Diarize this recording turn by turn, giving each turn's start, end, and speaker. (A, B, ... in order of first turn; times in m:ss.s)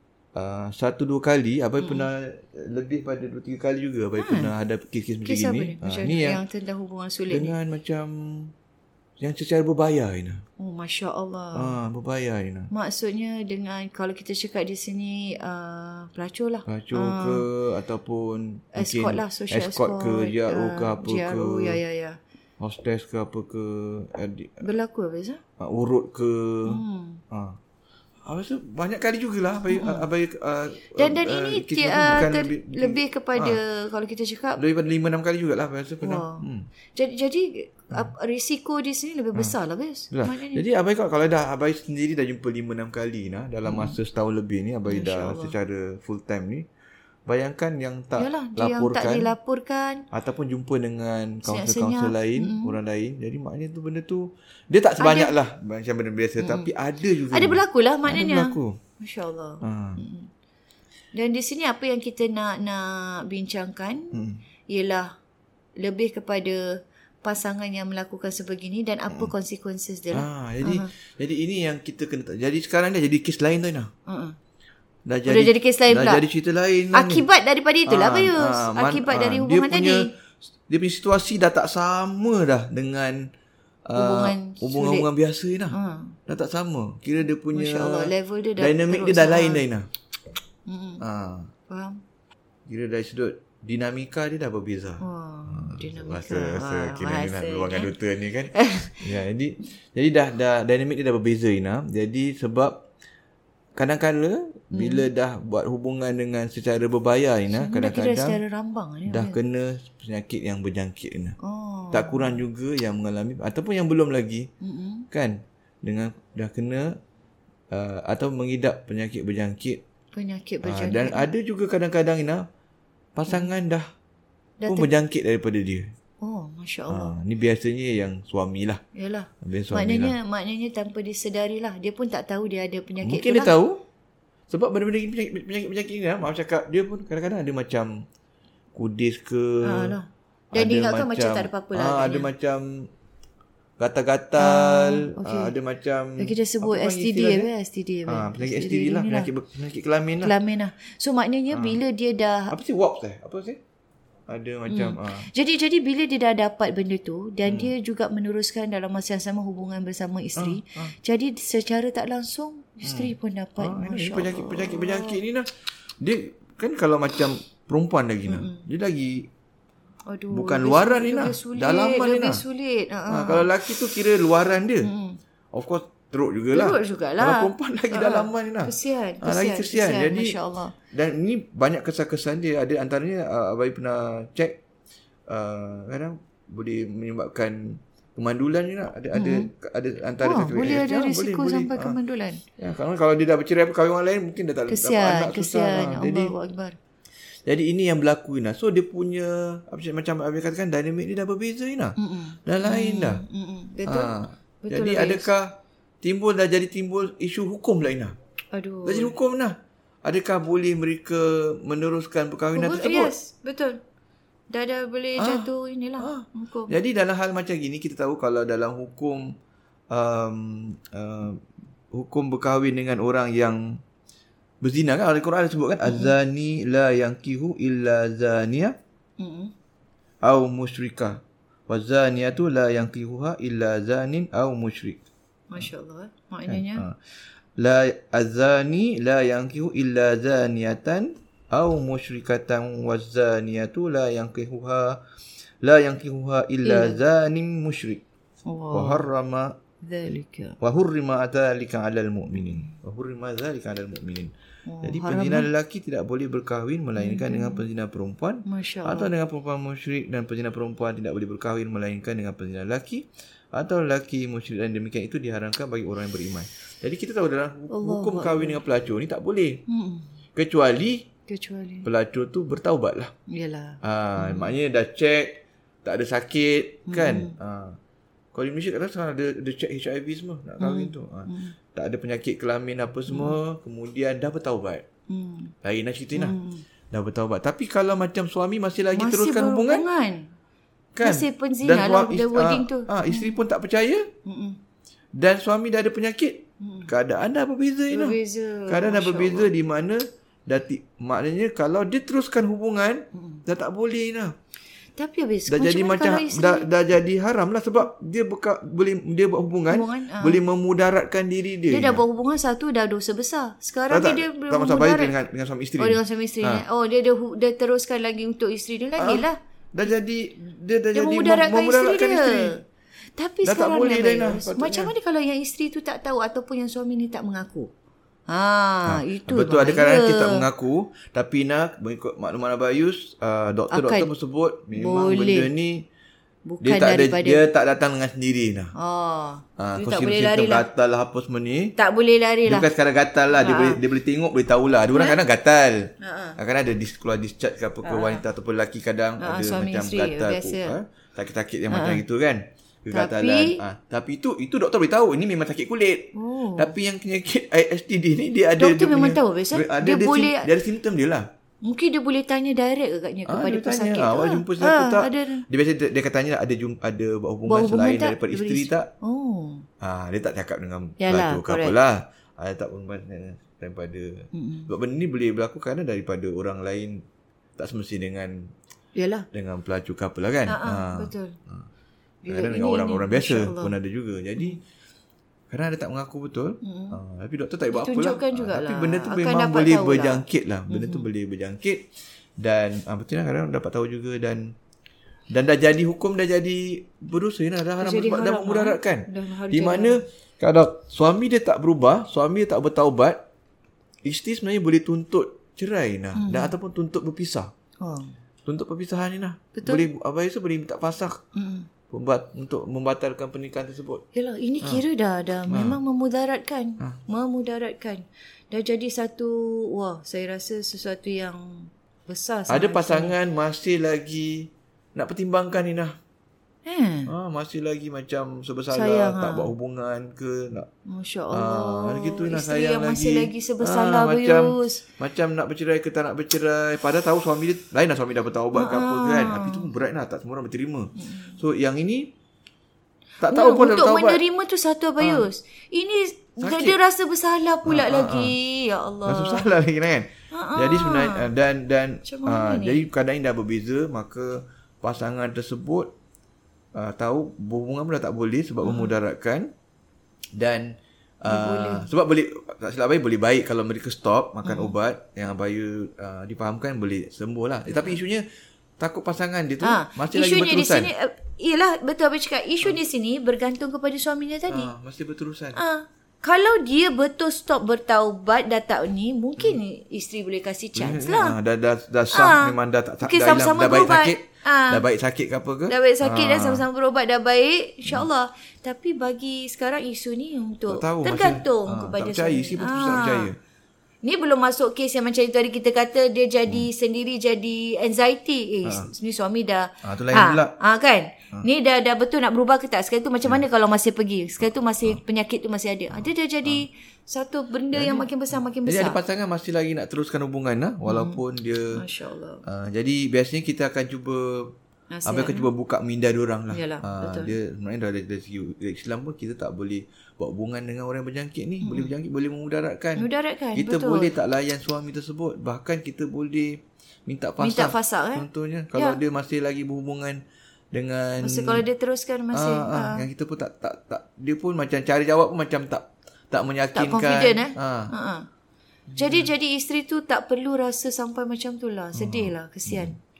0:00.3-0:06.4 A
0:01.8-0:02.1 B
0:04.2-0:04.5 B
0:05.2-0:07.5 B
0:07.3-0:08.5 A
0:09.2-0:10.4 A
0:10.6-0:11.7 B
0:11.5-0:12.7 A
0:12.7-0:17.4 B
0:16.7-0:21.8 A
0:18.8-0:22.2 B
0:22.6-0:24.6 A
0:24.6-0:25.4 B
0:25.6-0:27.6 A
0:26.6-0:27.2 B
0:28.2-0:33.6 A
0:29.7-0:30.1 B
0:31.0-0:34.6 B
0:34.6-0:36.7 A
0:36.0-0:40.6 B
0:40.1-0:46.7 A
0:43.6-0:44.0 B
0:44.9-0:45.5 B
0:47.3-0:49.3 A
0:48.2-0:50.0 B
0:50.1-0:58.8 A
0:51.4-0:52.7 B
0:55.0-0:55.3 B
0:56.4-0:56.7 B
0:57.3-1:00.3 B
0:59.6-1:00.0 A
1:01.1-1:04.2 B
1:04.1-1:04.4 A
1:04.7-1:05.1 B
1:05.8-1:10.9 B
1:10.1-1:13.9 A
1:14.1-1:14.3 B
1:15.0-1:17.2 A
1:15.3-1:16.2 B
1:16.9-1:20.1 B
1:17.9-1:20.1 A
1:20.7-1:23.3 A
1:23.9-1:29.9 A
1:23.9-1:25.1 B
1:25.7-1:26.2 B
1:27.5-1:29.6 B
1:30.7-1:31.0 B
1:31.0-1:31.5 A
1:31.7-1:32.0 B
1:32.7-1:42.8 A
1:35.0-1:37.9 B
1:38.5-1:39.0 B
1:43.8-1:48.4 A
1:44.7-1:45.1 B
1:47.5-1:49.4 B
1:49.1-1:51.4 A
1:51.4-1:52.4 B
1:51.9-1:54.5 A
1:54.6-1:55.0 B
1:55.1-1:57.0 A
1:57.7-1:59.8 A
2:00.1-2:01.3 B
2:00.6-2:02.5 A
2:03.2-2:03.9 A
2:04.6-2:04.9 B
2:04.7-2:05.9 A
2:06.2-2:07.1 B
2:06.9-2:08.8 A
2:08.9-2:13.5 B
2:09.4-2:10.1 A
2:13.0-2:13.8 A
2:14.5-2:18.0 A
2:18.7-2:20.0 A
2:19.6-2:22.3 B
2:20.5-2:22.9 A
2:23.8-2:27.5 A
2:24.4-2:25.5 B
2:26.2-2:29.3 B
2:28.1-2:30.3 A
2:30.2-2:32.5 B
2:31.5-2:31.8 A
2:32.5-2:33.6 A
2:34.3-2:35.3 A
2:34.7-2:45.2 B
2:37.4-2:37.7 A
2:40.4-2:40.9 A
2:42.8-2:45.5 A
2:46.0-2:49.3 A
2:48.3-2:48.6 B
2:50.1-2:53.5 B
2:50.3-2:52.4 A
2:53.1-2:54.9 A
2:54.8-2:55.2 B
2:55.5-3:00.4 A
2:56.5-3:00.7 B
3:00.9-3:04.6 A
3:05.3-3:12.0 A
3:09.1-3:09.5 B
3:10.2-3:12.4 B
3:12.6-3:16.3 A
3:14.7-3:16.8 B
3:17.4-3:23.2 A
3:22.0-3:25.3 B
3:23.8-3:28.2 A
3:28.5-3:29.1 B
3:28.8-3:33.1 A
3:32.5-3:33.8 B
3:34.5-3:36.7 B
3:35.2-3:39.3 A
3:39.9-3:43.8 A
3:44.6-3:48.8 A
3:45.8-3:46.1 B
3:49.2-3:49.5 B
3:50.2-3:55.0 A
3:55.5-3:56.8 B
3:56.5-3:57.0 A
3:57.6-4:05.0 A
4:05.6-4:08.0 A
4:06.6-4:07.0 B
4:08.5-4:09.0 B
4:08.7-4:09.6 A
4:09.8-4:10.6 B
4:10.6-4:14.3 A
4:14.7-4:15.5 B
4:14.8-4:29.6 A
4:17.0-4:17.6 B
4:18.4-4:19.1 B
4:27.7-4:28.6 B
4:29.7-4:30.1 B
4:30.3-4:31.1 A
4:31.3-4:31.9 B
4:31.8-4:33.1 A
4:33.3-4:34.5 B
4:33.8-4:37.8 A
4:36.9-4:37.3 B
4:38.3-4:44.8 A
4:40.6-4:41.5 B
4:43.1-4:43.4 B
4:45.1-4:45.5 B
4:45.6-4:46.4 A
4:46.2-4:46.6 B
4:46.9-4:49.8 A
4:48.9-4:50.3 B
4:50.9-4:54.1 A
4:51.0-4:53.4 B
4:54.2-4:54.6 B
4:55.1-5:04.3 A
4:56.6-4:56.9 B
4:57.9-4:59.5 B
5:03.1-5:03.4 B
5:05.0-5:06.7 B
5:05.5-5:12.0 A
5:09.7-5:10.4 B
5:11.7-5:15.1 B
5:13.9-5:16.6 A
5:15.8-5:19.4 B
5:19.0-5:22.5 A
5:20.9-5:22.6 B
5:23.2-5:27.7 B
5:23.4-5:24.9 A
5:28.3-5:30.4 B
5:28.8-5:35.9 A
5:33.7-5:34.1 B
5:34.7-5:35.5 B
5:36.4-5:37.4 B
5:36.6-5:38.7 A
5:38.8-5:40.7 B
5:39.6-5:41.7 A
5:41.8-5:42.7 B
5:42.4-6:01.3 A
5:43.3-5:43.8 B
5:44.9-5:45.2 B
5:46.0-5:46.4 B
5:47.8-5:48.2 B
5:49.2-5:50.7 B
5:51.7-5:52.0 B
5:52.9-5:53.6 B
5:56.1-5:56.7 B
5:58.6-6:00.5 B
6:01.6-6:05.4 B
6:03.3-6:08.9 A
6:07.5-6:09.6 B
6:09.8-6:17.0 A
6:11.0-6:11.7 B
6:14.3-6:14.7 B
6:17.6-6:18.5 A
6:19.0-6:19.2 B
6:19.3-6:21.6 A
6:20.5-6:21.3 B
6:22.2-6:23.7 B
6:22.3-6:24.6 A
6:25.5-6:34.5 A
6:26.6-6:27.0 B
6:27.7-6:31.1 B
6:35.3-6:43.2 A
6:37.8-6:40.0 B
6:44.0-6:47.5 A
6:46.1-6:46.5 B
6:47.8-6:48.1 B
6:48.4-6:51.2 A
6:49.5-6:49.8 B
6:51.3-6:51.7 B
6:51.9-6:54.0 A
6:54.1-7:03.1 B
6:55.5-6:55.8 A
7:02.5-7:06.0 A
7:06.6-7:07.1 B
7:07.1-7:10.7 A
7:08.7-7:09.5 B
7:10.9-7:14.8 B
7:11.3-7:22.1 A
7:18.5-7:19.7 B
7:21.0-7:21.4 B
7:23.2-7:24.2 A
7:23.3-7:29.5 B
7:25.0-7:25.3 A
7:26.4-7:26.8 A
7:27.6-7:28.3 A
7:29.0-7:35.9 A
7:30.3-7:31.3 B
7:32.0-7:32.8 B
7:36.7-7:39.5 A
7:38.6-7:39.0 B
7:40.4-7:48.2 A
7:41.2-7:41.9 B
7:44.4-7:44.7 B
7:47.7-7:48.0 B
7:48.8-7:50.9 A
7:49.6-7:54.7 B
7:54.5-7:55.6 A
7:55.5-8:01.4 B
8:00.7-8:06.6 A
8:02.1-8:04.8 B
8:05.7-8:13.3 B
8:10.7-8:13.4 A
8:14.0-8:29.0 B
8:18.6-8:18.9 A
8:19.8-8:20.5 A
8:26.0-8:26.6 A
8:27.7-8:28.1 A
8:28.6-8:31.8 A
8:30.8-8:31.2 B
8:31.7-8:32.4 B
8:32.4-8:34.5 A
8:34.9-8:35.5 B
8:35.0-8:50.2 A
8:36.5-8:37.3 B
8:41.6-8:41.9 B
8:43.0-8:44.1 B
8:47.4-8:49.0 B
8:50.7-8:51.6 A
8:51.2-8:53.0 B
8:52.3-8:57.9 A
8:56.7-8:58.2 B
8:58.9-8:59.3 A
8:59.0-9:03.0 B
9:01.9-9:02.9 A